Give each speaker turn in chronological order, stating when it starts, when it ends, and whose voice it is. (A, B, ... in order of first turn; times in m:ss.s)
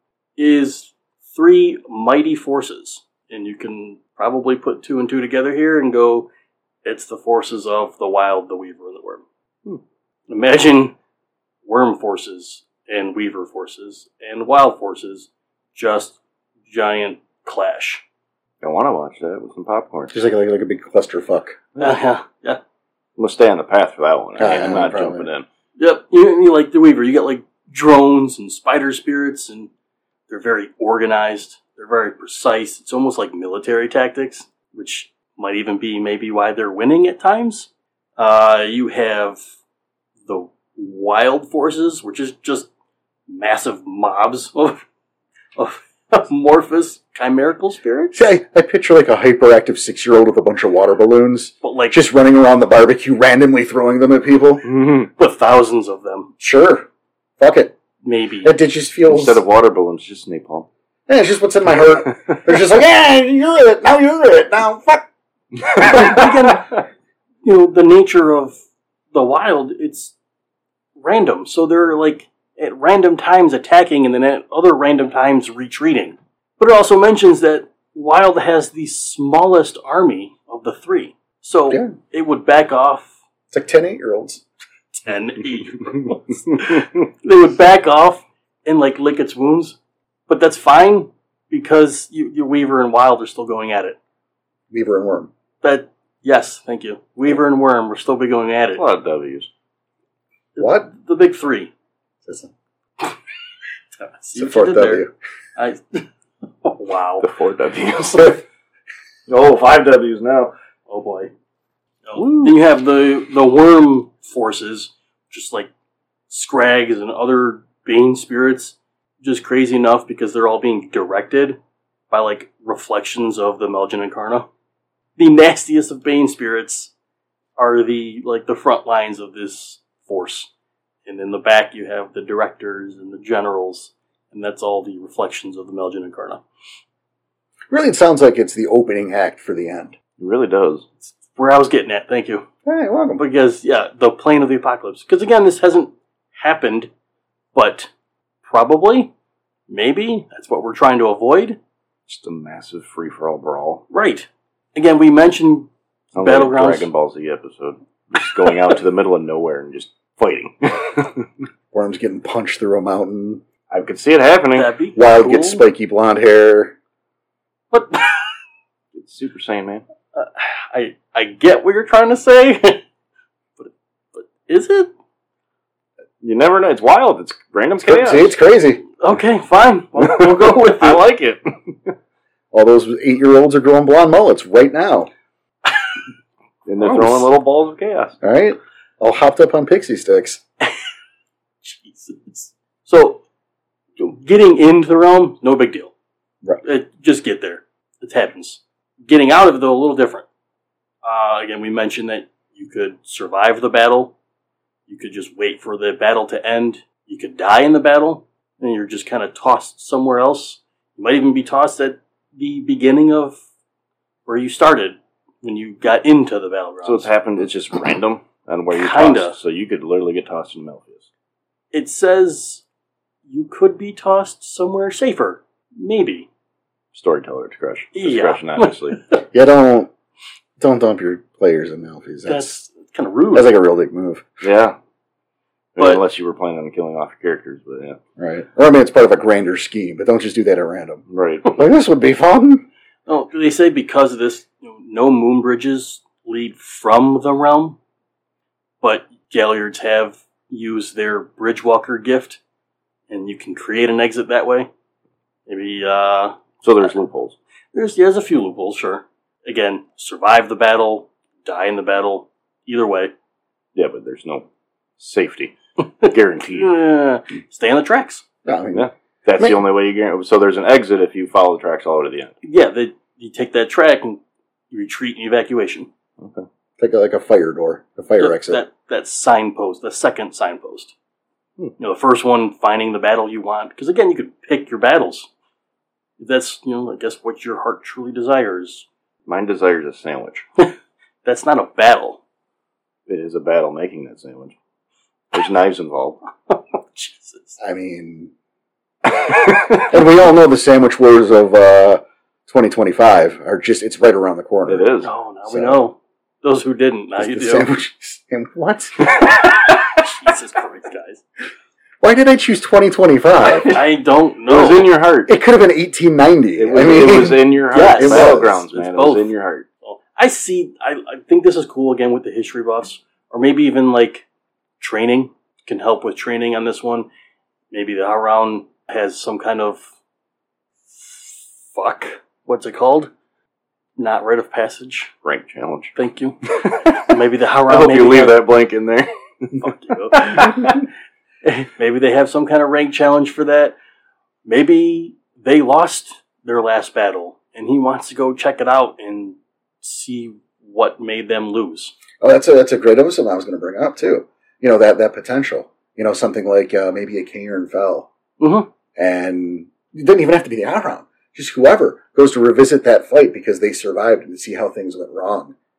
0:00.4-0:06.3 A
0:06.8-0:09.2 A
0:10.3-0:11.0 A
0:11.6-0:18.0 A
0:18.6-0:20.2 B
0:20.1-0:21.6 C
0:21.8-0:22.6 A
0:23.2-0:25.5 B
0:24.4-0:25.3 C
0:25.8-0:29.7 A
0:30.3-0:39.4 A
0:40.3-0:42.7 A
0:43.3-0:44.8 A
0:45.6-0:48.3 A
0:48.2-0:54.6 C
0:51.6-0:52.0 A
0:54.6-0:55.1 B
0:55.2-0:56.3 A
0:56.4-0:56.9 C
0:57.4-0:57.8 C
0:58.0-0:58.5 A
0:58.4-0:59.4 C
0:59.1-1:00.7 B
1:01.1-1:05.1 C
1:02.1-1:02.4 B
1:05.6-1:06.6 B
1:05.8-1:06.8 A
1:07.4-1:08.6 A
1:09.1-1:10.1 A
1:11.0-1:23.1 A
1:23.5-1:24.4 C
1:24.9-1:34.0 A
1:34.7-1:35.3 C
1:35.6-1:38.8 A
1:38.8-1:39.5 B
1:40.6-1:41.7 A
1:40.6-1:40.9 C
1:42.3-1:42.5 C
1:44.0-1:45.0 A
1:44.4-1:45.1 C
1:45.6-1:46.1 A
1:46.6-1:47.3 A
1:47.2-1:48.4 B
1:49.3-1:50.5 B
1:50.9-1:51.3 A
1:52.1-1:55.7 A
1:52.2-1:52.6 B
1:56.3-2:01.6 A
2:02.1-2:04.5 A
2:05.2-2:06.9 A
2:07.6-2:10.5 A
2:11.1-2:16.4 A
2:17.7-2:20.0 C
2:20.2-2:20.9 B
2:21.1-2:22.5 A
2:22.6-2:23.2 C
2:23.2-2:26.9 A
2:27.5-2:27.9 A
2:28.4-2:29.1 A
2:29.7-2:31.6 A
2:32.1-2:33.8 B
2:33.9-2:36.9 A
2:36.1-2:41.3 B
2:41.7-2:43.4 C
2:43.7-2:44.7 B
2:44.6-2:45.6 A
2:45.0-2:46.7 C
2:47.7-2:48.4 A
2:48.9-2:49.8 B
2:50.1-2:52.8 A
2:53.6-2:54.9 A
2:56.2-2:58.3 B
2:57.8-2:58.8 C
2:59.0-3:01.1 A
3:00.0-3:01.9 B
3:02.5-3:05.1 C
3:06.7-3:08.2 B
3:06.8-3:07.3 C
3:08.2-3:10.4 C
3:11.6-3:13.2 A
3:14.0-3:15.9 A
3:16.6-3:20.3 A
3:21.0-3:24.1 A
3:24.9-3:33.4 A
3:34.3-3:37.1 A
3:36.8-3:41.0 B
3:38.7-3:39.4 A
3:41.7-3:42.6 A
3:43.3-3:46.3 A
3:46.9-3:49.0 B
3:48.0-3:49.1 A
3:49.3-3:49.9 C
3:50.6-3:52.6 C
3:52.3-3:53.5 A
3:53.3-3:54.2 C
3:54.4-3:54.8 B
3:55.8-3:58.0 B
3:55.8-3:56.0 A
3:58.2-4:02.7 C
4:01.1-4:01.5 B
4:03.1-4:07.8 A
4:08.8-4:12.4 A
4:13.1-4:14.7 A
4:15.5-4:16.9 A
4:16.6-4:17.4 B
4:17.7-4:23.1 A
4:23.8-4:24.5 B
4:25.0-4:26.7 B
4:25.8-4:28.2 A
4:28.4-4:29.6 C
4:28.7-4:32.4 B
4:32.4-4:35.9 A
4:36.2-4:36.5 B
4:36.8-4:38.6 C
4:38.2-4:40.9 A
4:41.8-4:45.3 A
4:46.2-4:48.9 A
4:49.3-4:50.4 B
4:51.2-4:52.2 A
4:53.1-4:54.6 B
4:55.3-4:56.2 B
4:56.5-4:57.6 A
4:57.6-4:58.3 C
4:59.3-4:59.9 B
4:59.6-5:04.9 C
5:04.7-5:05.1 B
5:05.0-5:07.7 A
5:05.5-5:05.8 C
5:07.2-5:09.5 C
5:09.2-5:09.5 B
5:10.0-5:11.2 A
5:12.0-5:13.7 C
5:13.5-5:13.8 B
5:13.7-5:14.9 A
5:14.5-5:15.3 B
5:15.3-5:18.6 C
5:16.6-5:19.7 B
5:17.7-5:19.3 A
5:19.8-5:24.2 A
5:24.8-5:27.1 A
5:27.7-5:29.9 A
5:30.9-5:33.1 A
5:34.0-5:35.1 A
5:35.2-5:36.0 B
5:36.0-5:36.4 A
5:36.5-5:40.8 B
5:37.0-5:38.4 A
5:39.6-5:40.6 A
5:41.4-5:43.8 A
5:44.5-5:52.0 A
5:52.2-5:58.1 C
5:58.4-5:58.7 A
5:59.0-6:05.6 C